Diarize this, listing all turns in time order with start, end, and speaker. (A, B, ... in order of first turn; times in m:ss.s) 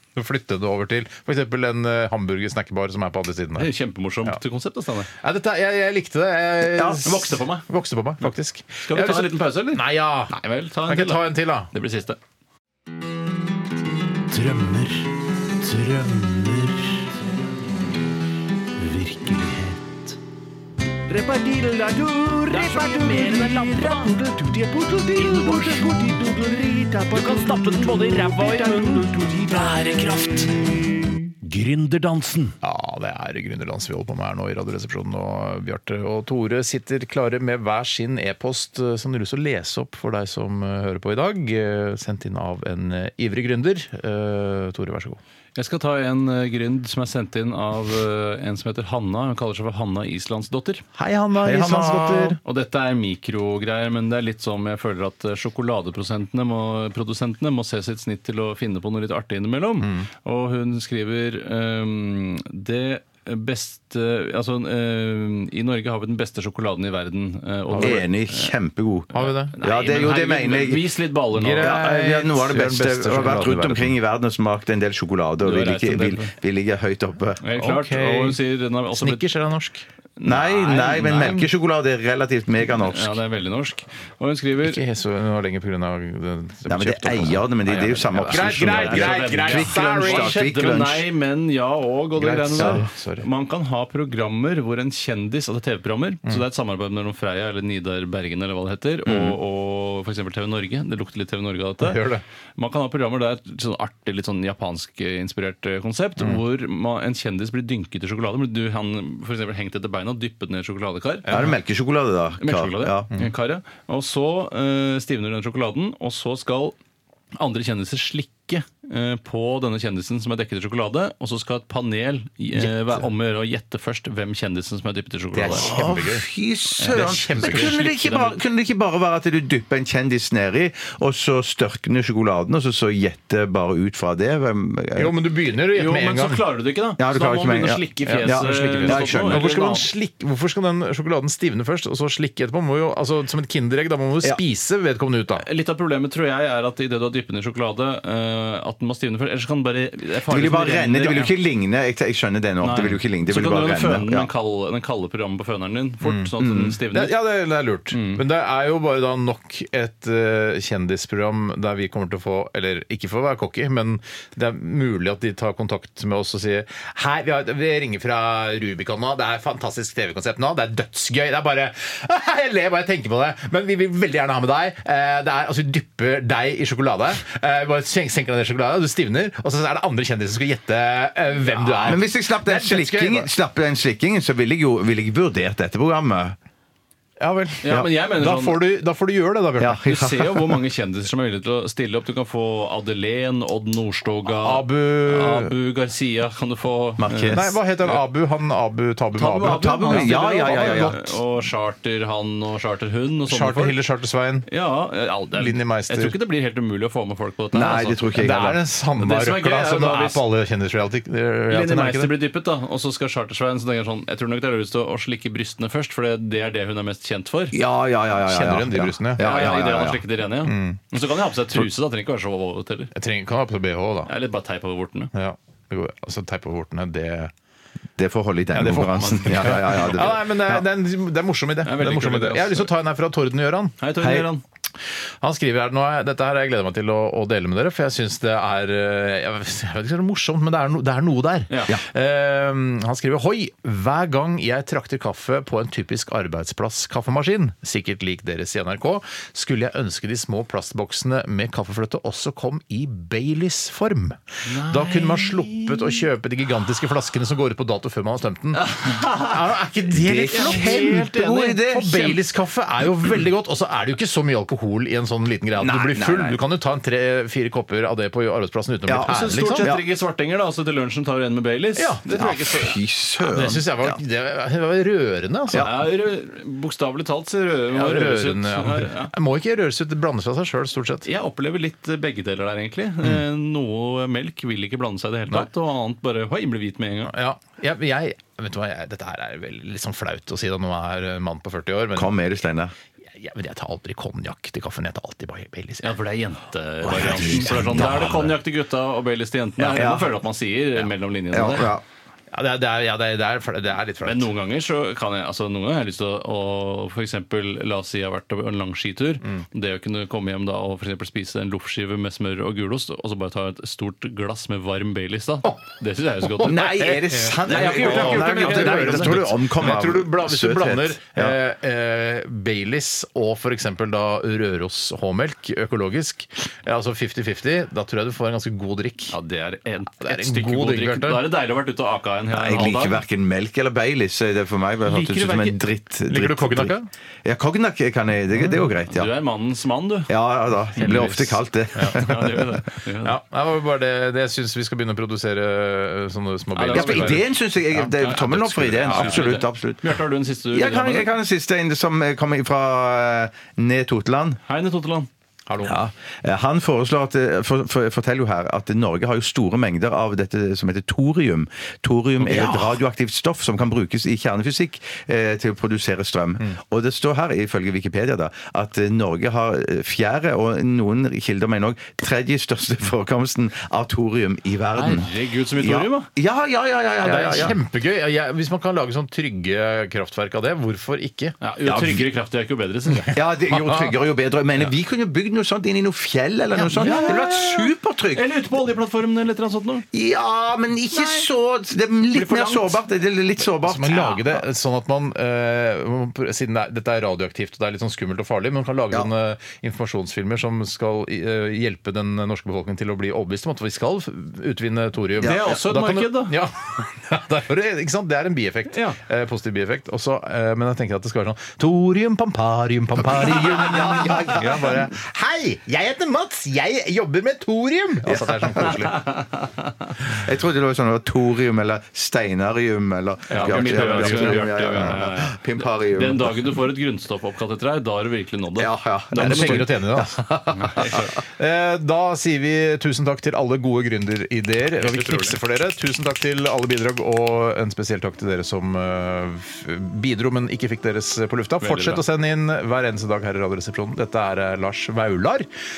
0:00.1-0:03.7 A
0:03.6-0:05.1 B
0:05.1-0:10.3 A
0:06.8-0:07.0 C
0:07.0-0:07.7 B
0:08.8-0:12.2 B
0:10.8-0:11.7 A
0:14.3-0:17.0 D
0:18.8-0:19.8 D
0:21.1-0:30.5 E
0:22.5-0:23.5 D
0:25.2-0:26.1 D
0:31.4-0:32.5 D
0:32.6-0:45.2 A
0:45.6-0:50.8 B
0:50.9-0:52.4 A
0:51.4-0:52.4 C
0:52.4-1:08.5 B
0:59.8-1:00.1 A
1:07.7-1:08.0 A
1:07.8-1:11.0 C
1:09.1-1:09.6 A
1:09.2-1:11.8 B
1:11.3-1:13.9 A
1:11.6-1:17.4 C
1:15.4-1:16.3 B
1:17.4-1:19.3 B
1:17.5-1:18.4 A
1:18.9-1:19.8 A
1:20.2-1:21.5 B
1:20.2-1:23.2 C
1:21.0-1:21.4 A
1:22.7-1:24.8 B
1:24.6-1:30.4 A
1:26.7-1:31.0 C
1:27.8-1:42.0 B
1:32.2-1:33.3 A
1:39.0-1:39.4 C
1:41.8-1:42.2 A
1:42.6-1:51.3 B
1:51.2-1:51.6 A
1:51.3-1:53.1 C
1:52.4-1:56.8 B
1:57.3-2:05.7 B
2:02.6-2:03.0 A
2:05.4-2:06.3 A
2:05.4-2:15.1 C
2:06.8-2:07.8 A
2:06.8-2:08.4 B
2:15.0-2:16.4 A
2:15.7-2:19.9 B
2:17.0-2:19.5 C
2:18.0-2:25.4 A
2:25.4-2:31.3 B
2:30.3-2:34.3 C
2:32.6-2:37.1 B
2:36.0-3:03.3 A
2:36.4-2:36.7 C
2:37.9-2:38.2 B
3:01.7-3:06.4 C
3:07.2-3:10.0 A
3:07.6-3:08.6 B
3:09.6-3:10.6 C
3:09.7-3:17.9 B
3:14.2-3:15.5 A
3:17.0-3:17.6 C
3:17.3-3:21.1 A
3:19.1-3:23.8 B
3:19.4-3:21.1 C
3:23.3-3:24.5 A
3:24.5-3:28.0 B
3:25.4-3:26.1 A
3:27.5-3:28.6 C
3:28.1-3:32.1 A
3:29.0-3:30.2 B
3:31.5-3:37.5 B
3:37.5-3:40.0 C
3:38.2-3:39.4 A
3:39.2-3:42.9 B
3:40.4-3:40.8 A
3:42.9-3:44.1 A
3:44.0-3:45.1 B
3:45.1-3:47.3 A
3:48.0-3:50.6 C
3:48.5-3:53.8 A
3:49.0-3:50.1 B
3:51.6-3:52.7 B
3:53.8-3:54.4 B
3:54.0-3:54.2 C
3:55.2-4:29.7 A
4:14.4-4:16.0 B
4:18.6-4:19.4 B
4:19.9-4:22.2 C
4:20.3-4:21.6 B
4:25.6-4:26.4 C
4:28.9-4:29.8 C
4:29.0-4:32.8 B
4:31.8-4:32.2 A
4:32.1-4:34.0 C
4:33.2-4:35.7 A
4:35.6-4:39.1 B
4:37.7-4:41.1 A
4:41.0-4:47.1 B
4:47.0-4:52.1 A
4:51.9-4:52.7 C
4:53.1-4:56.0 A
4:55.8-5:01.7 B
4:56.8-4:58.3 C
4:59.6-5:00.1 C
5:01.3-5:01.8 C
5:02.3-5:04.3 A
5:04.0-5:19.2 B
5:16.2-5:29.1 A
5:16.4-5:21.4 C
5:29.1-5:33.0 B
5:29.9-5:31.2 A
5:32.3-5:36.7 C
5:34.8-5:35.7 B
5:36.0-5:36.9 A
5:37.2-5:39.1 C
5:38.4-5:38.7 A
5:38.9-5:40.1 B
5:40.1-5:42.5 C
5:40.8-5:42.0 A
5:40.8-5:43.1 B
5:43.0-5:49.4 A
5:46.5-5:51.1 B
5:46.7-5:49.9 C
5:50.5-5:54.4 C
5:54.5-5:55.1 B
5:55.5-5:55.8 A
5:55.6-6:17.6 C
6:02.2-6:02.8 A
6:14.8-6:16.1 B
6:17.0-6:21.4 A
6:21.4-6:23.2 B
6:21.6-6:22.0 C
6:22.9-6:23.9 A
6:23.1-6:28.2 C
6:26.5-6:27.4 A
6:26.8-6:29.9 B
6:29.9-6:34.4 C
6:30.9-6:31.2 B
6:32.1-6:32.8 B
6:33.6-6:59.1 A
6:45.2-6:46.4 B
6:45.2-6:45.6 C
6:48.7-6:49.0 B
6:53.2-6:54.9 C
6:58.1-6:58.9 C
6:59.1-6:59.4 B
7:00.0-7:06.4 C
7:03.3-7:05.0 A
7:03.3-7:09.7 B
7:08.6-7:10.9 C
7:09.1-7:10.2 A
7:10.5-7:11.1 B
7:10.8-7:25.5 A
7:14.8-7:15.4 B
7:21.6-7:22.0 B